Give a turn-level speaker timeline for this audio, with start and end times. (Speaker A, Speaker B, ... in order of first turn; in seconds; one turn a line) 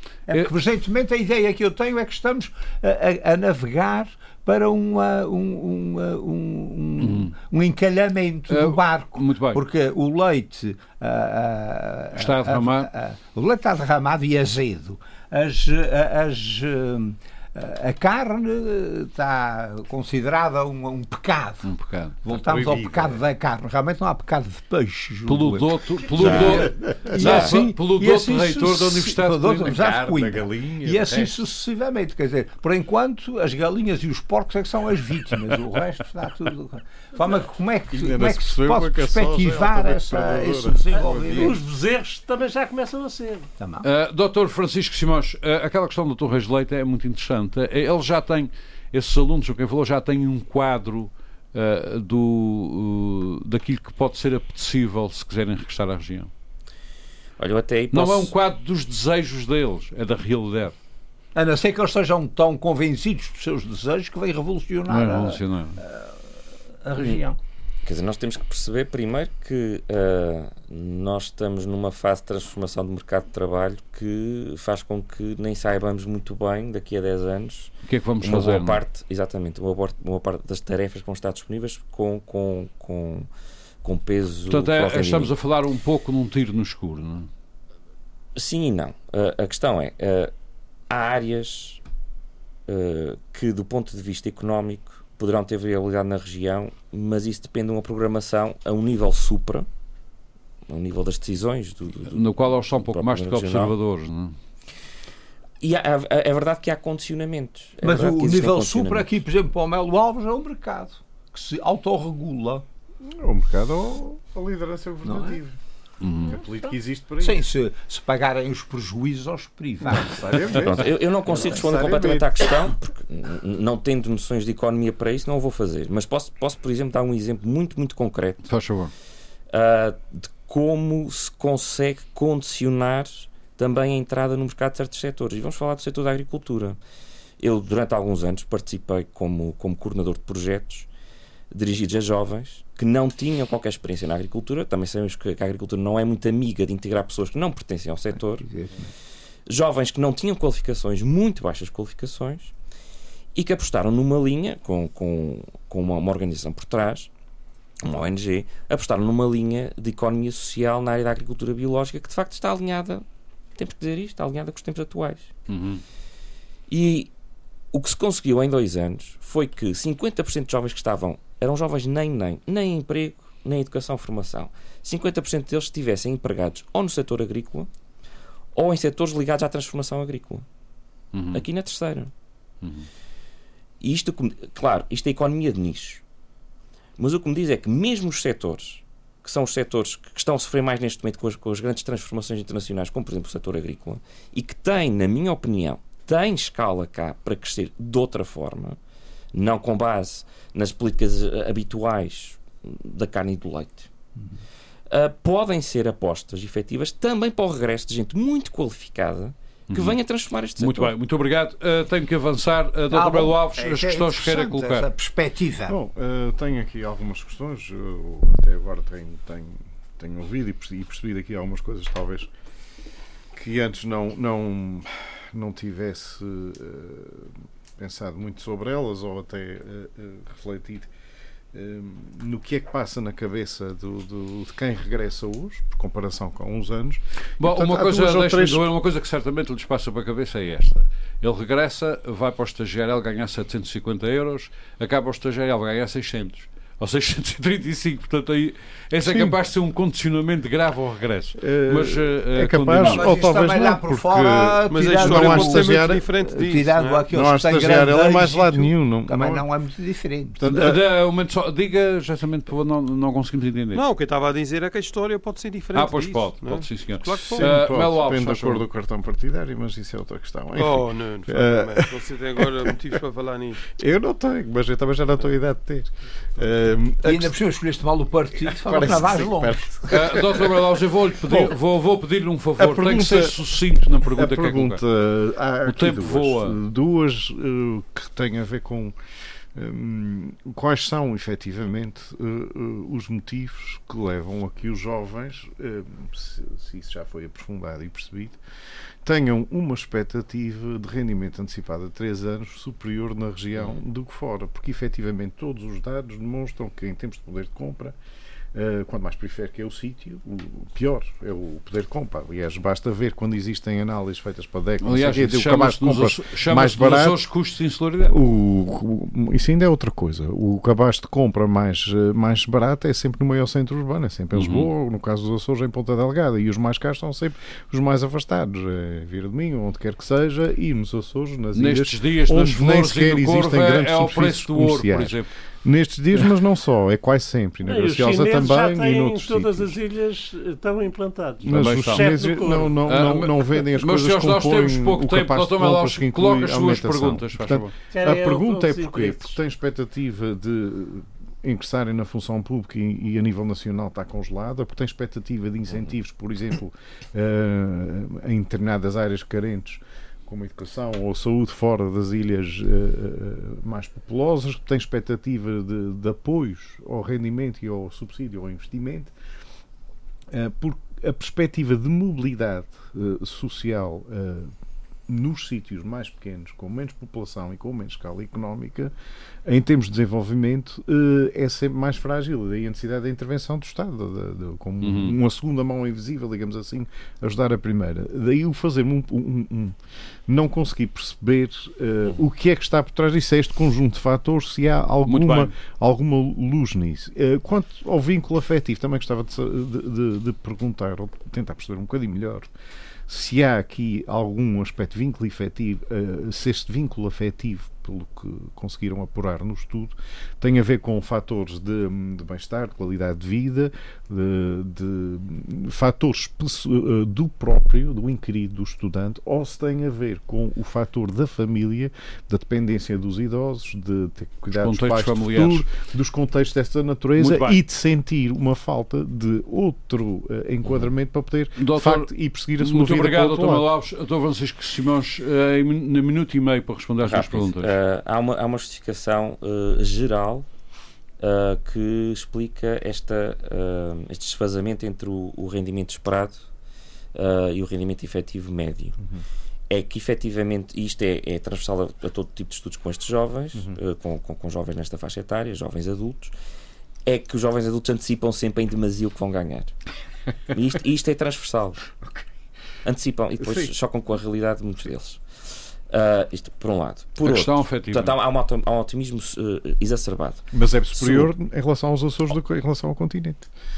Speaker A: 0.3-21.7
Speaker B: 7.0-7.3
Speaker B: 8.5-9.6
Speaker B: 12.1-12.9
Speaker B: 21.6-22.2
Speaker A: 22.2-41.6
Speaker C: 22.3-23.2
Speaker B: 25.3-30.3
Speaker D: 26.2-27.5
Speaker C: 30.1-31.4
Speaker C: 37.9-41.6
Speaker E: 41.3-43.5
Speaker A: 43.6-43.9
Speaker B: 43.8-56.3
Speaker D: 57.4-58.3
Speaker B: 57.9-60.8
Speaker A: 61.4-67.4
Speaker B: 64.9-65.8
Speaker D: 67.8-83.3
Speaker B: 77.9-78.8
Speaker D: 83.8-85.3
Speaker B: 84.5-87.3
Speaker D: 88.3-90.3
Speaker D: 90.9-91.8
Speaker D: 92.7-99.7
Speaker D: 100.7-103.8
Speaker B: 102.1-104.4
Speaker D: 105.6-109.1
Speaker A: 107.8-112.7
Speaker C: 113.0-115.6
Speaker A: 115.0-115.4
Speaker B: 116.0-116.4
Speaker C: 116.2-117.5
Speaker A: 117.2-120.6
Speaker C: 119.9-122.5
Speaker D: 120.5-128.5
Speaker B: 128.5-128.9
Speaker D: 129.5-136.8
Speaker D: 137.4-140.9
Speaker D: 141.5-148.5
Speaker A: 148.2-148.9
Speaker D: 149.5-152.5
Speaker D: 153.3-157.1
Speaker D: 157.8-163.1
Speaker D: 163.6-165.3
Speaker B: 165.5-165.8
Speaker D: 166.7-167.1
Speaker D: 167.7-177.7
Speaker D: 178.5-180.4
Speaker B: 181.1-181.4
Speaker D: 181.3-182.1
Speaker B: 182.6-182.9
Speaker D: 183.8-186.0
Speaker D: 187.0-198.8
Speaker D: 199.3-203.9
Speaker D: 204.9-210.9
Speaker B: 209.7-210.0
Speaker B: 210.6-214.9
Speaker A: 212.9-215.8
Speaker C: 215.7-222.3
Speaker C: 223.3-230.9
Speaker C: 231.5-238.7
Speaker B: 237.4-253.1
Speaker C: 249.0-249.4
Speaker C: 251.4-256.1
Speaker A: 252.8-260.4
Speaker F: 254.7-257.1
Speaker C: 257.1-259.5
Speaker C: 260.4-260.9
Speaker B: 260.4-263.8
Speaker F: 263.7-267.6
Speaker B: 265.7-268.6
Speaker C: 267.1-273.0
Speaker F: 270.5-273.6
Speaker C: 273.7-277.3
Speaker A: 277.0-279.9
Speaker C: 278.5-281.5
Speaker B: 279.9-284.8
Speaker C: 282.6-283.4
Speaker C: 284.0-288.9
Speaker B: 285.6-286.6
Speaker C: 289.6-298.4
Speaker C: 299.0-308.0
Speaker C: 308.5-317.2
Speaker B: 314.8-318.2
Speaker C: 318.1-339.8
Speaker B: 324.3-324.7
Speaker B: 331.5-335.3
Speaker E: 337.6-342.8
Speaker C: 341.4-369.1
Speaker B: 341.4-342.2
Speaker B: 342.9-347.7
Speaker E: 347.9-349.4
Speaker C: 370.3-374.5
Speaker C: 375.1-378.9
Speaker C: 379.4-402.5
Speaker B: 384.8-385.2
Speaker B: 395.0-395.5
Speaker C: 403.1-433.7
Speaker B: 424.5-425.7
Speaker B: 427.2-427.6
Speaker B: 431.6-437.8
Speaker D: 437.0-440.5
Speaker D: 441.2-446.4
Speaker D: 447.1-449.0
Speaker D: 449.7-456.3
Speaker D: 457.1-459.8
Speaker D: 460.5-461.9
Speaker D: 462.9-465.2
Speaker D: 465.9-471.3
Speaker B: 467.2-468.2
Speaker C: 470.5-473.5